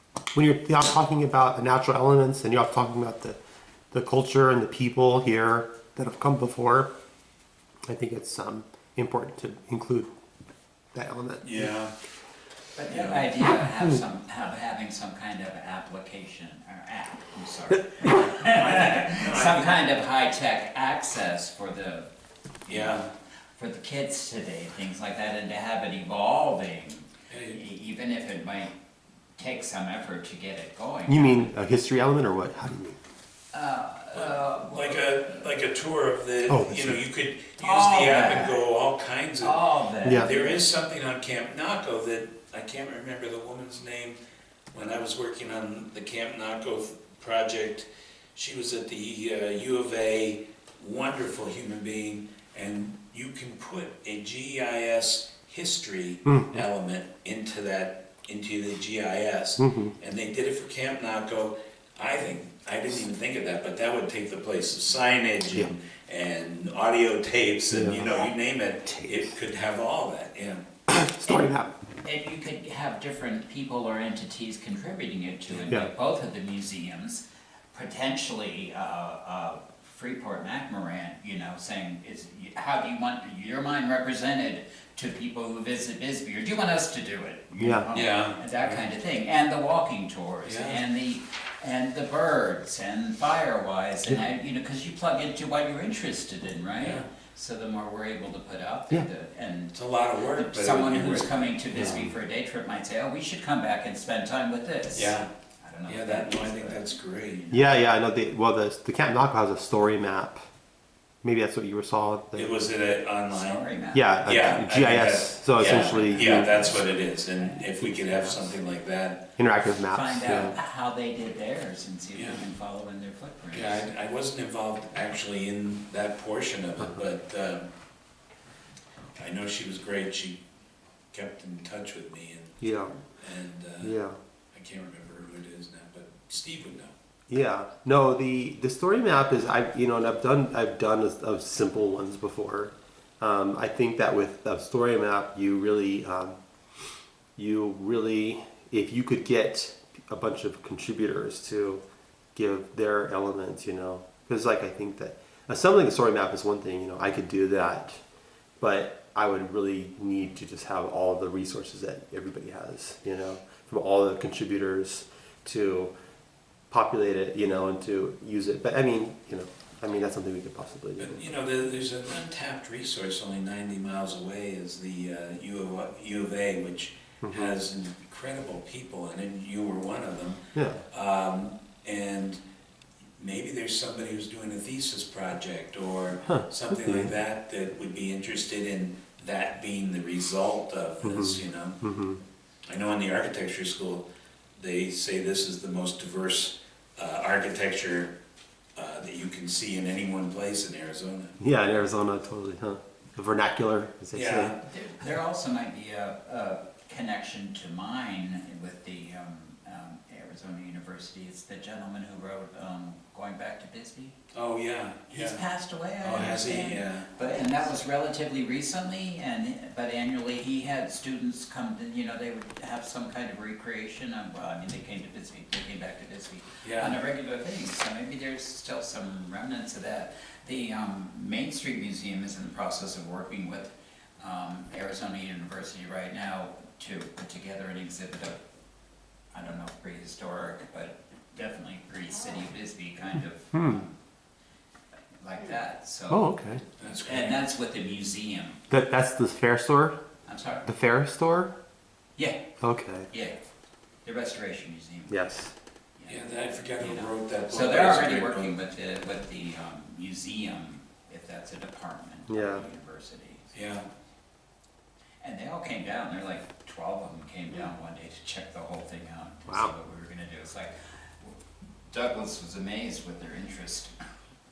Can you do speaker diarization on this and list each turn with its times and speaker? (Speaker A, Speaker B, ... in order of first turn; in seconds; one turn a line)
Speaker A: 0.3-3.4
Speaker A: 3.9-6.9
Speaker A: 7.9-10.1
Speaker A: 10.9-11.7
Speaker B: 11.4-11.9
Speaker C: 12.8-22.1
Speaker B: 12.9-13.3
Speaker B: 18.0-19.8
Speaker C: 22.6-23.0
Speaker B: 22.7-23.1
Speaker C: 23.6-28.7
Speaker B: 27.3-27.6
Speaker C: 29.4-31.5
Speaker A: 31.1-33.0
Speaker C: 33.5-35.4
Speaker B: 34.1-44.2
Speaker A: 36.5-37.0
Speaker C: 37.6-38.6
Speaker C: 39.4-40.5
Speaker A: 40.0-40.3
Speaker B: 44.7-70.7
Speaker A: 56.3-56.6
Speaker A: 59.6-59.9
Speaker A: 67.7-68.3
Speaker A: 70.9-71.8
Speaker C: 72.0-99.8
Speaker A: 87.6-87.9
Speaker B: 87.9-88.8
Speaker B: 90.5-90.8
Speaker B: 96.8-97.1
Speaker B: 99.7-101.6
Speaker C: 100.3-107.7
Speaker A: 101.8-102.1
Speaker B: 105.0-105.3
Speaker B: 105.9-107.4
Speaker A: 107.5-110.4
Speaker A: 111.2-112.5
Speaker B: 112.3-113.7
Speaker C: 113.3-114.1
Speaker A: 113.9-116.6
Speaker B: 114.2-119.3
Speaker C: 115.6-116.9
Speaker C: 117.4-117.7
Speaker A: 119.4-120.6
Speaker C: 119.8-123.9
Speaker B: 122.1-122.4
Speaker B: 123.5-127.7
Speaker B: 129.2-130.4
Speaker B: 131.1-134.0
Speaker A: 132.6-133.0
Speaker A: 133.8-134.2
Speaker B: 134.5-136.9
Speaker A: 137.3-146.4
Speaker A: 147.4-151.8
Speaker A: 152.3-158.0
Speaker A: 158.6-165.9
Speaker A: 166.7-171.2
Speaker B: 171.0-182.4
Speaker A: 177.2-177.5
Speaker B: 183.2-191.8
Speaker A: 186.3-187.1
Speaker A: 191.0-192.2
Speaker B: 192.7-194.1
Speaker B: 194.6-198.2
Speaker B: 198.8-201.4
Speaker A: 201.4-204.6
Speaker B: 204.1-204.6
Speaker C: 204.7-214.2
Speaker B: 214.3-215.4
Speaker C: 215.1-238.4
Speaker B: 216.0-217.4
Speaker B: 226.6-227.0
Speaker C: 239.3-243.9
Speaker A: 243.5-243.8
Speaker C: 245.2-248.6
Speaker A: 246.1-246.6
Speaker B: 246.8-247.4
Speaker A: 248.7-250.0
Speaker C: 250.3-250.7
Speaker A: 250.7-251.5
Speaker A: 252.6-253.1
Speaker C: 253.1-253.4
Speaker C: 254.1-255.4
Speaker A: 255.1-255.5
Speaker C: 256.0-263.6
Speaker B: 256.1-258.6
Speaker A: 262.3-262.6
Speaker B: 263.5-263.8
Speaker C: 265.2-271.4
Speaker A: 269.5-269.7
Speaker C: 271.9-273.9